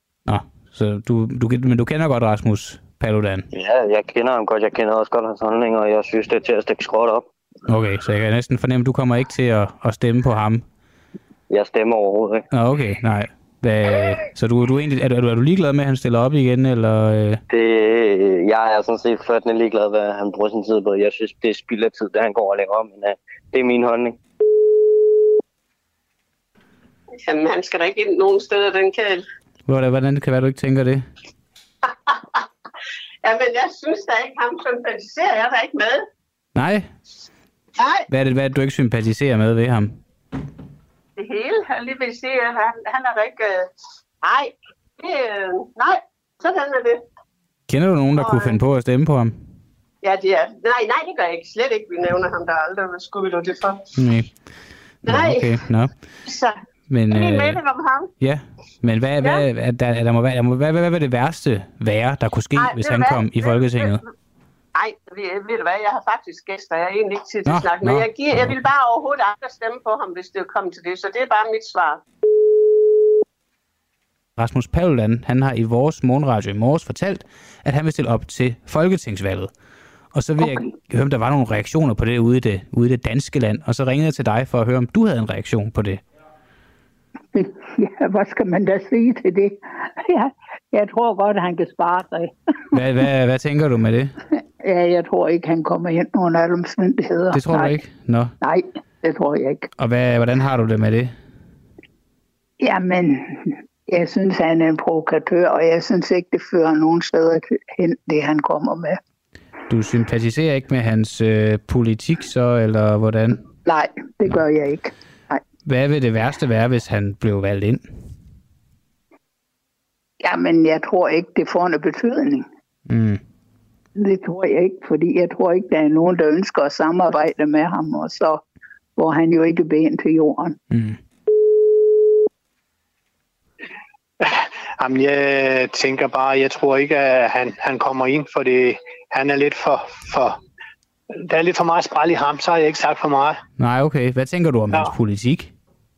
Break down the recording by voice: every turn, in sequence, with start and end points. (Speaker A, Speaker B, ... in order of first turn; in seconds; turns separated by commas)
Speaker A: 0.3-3.5, Speaker B: 3.5-7.2, Speaker A: 7.7-10.7, Speaker B: 11.5-12.4, Speaker A: 12.5-17.4, Speaker B: 17.5-24.2, Speaker C: 27.2-29.2, Speaker A: 29.6-31.0, Speaker C: 32.1-32.4, Speaker C: 33.2-36.0, Speaker A: 36.5-36.9, Speaker C: 37.8-38.0, Speaker A: 38.1-40.0, Speaker C: 41.2-43.6, Speaker C: 44.2-47.0, Speaker A: 47.7-49.5, Speaker C: 48.1-48.6, Speaker C: 50.0-53.8, Speaker A: 54.0-56.1, Speaker C: 55.0-55.7, Speaker C: 56.2-58.1, Speaker A: 56.9-57.6, Speaker A: 58.2-64.0, Speaker C: 62.5-64.0, Speaker C: 64.7-72.0, Speaker A: 67.5-68.5, Speaker A: 74.4-86.0, Speaker D: 87.3-92.3, Speaker A: 92.7-94.1, Speaker D: 94.6-97.8, Speaker A: 97.3-98.3, Speaker D: 98.4-99.7, Speaker A: 99.8-101.2, Speaker D: 102.6-109.0, Speaker A: 109.7-113.4, Speaker D: 113.7-115.4, Speaker A: 115.7-118.1, Speaker D: 120.2-122.5, Speaker A: 122.9-123.2, Speaker D: 124.0-128.4, Speaker D: 129.0-130.6, Speaker A: 130.7-131.0, Speaker E: 134.2-140.4, Speaker E: 141.2-143.4, Speaker A: 143.6-145.5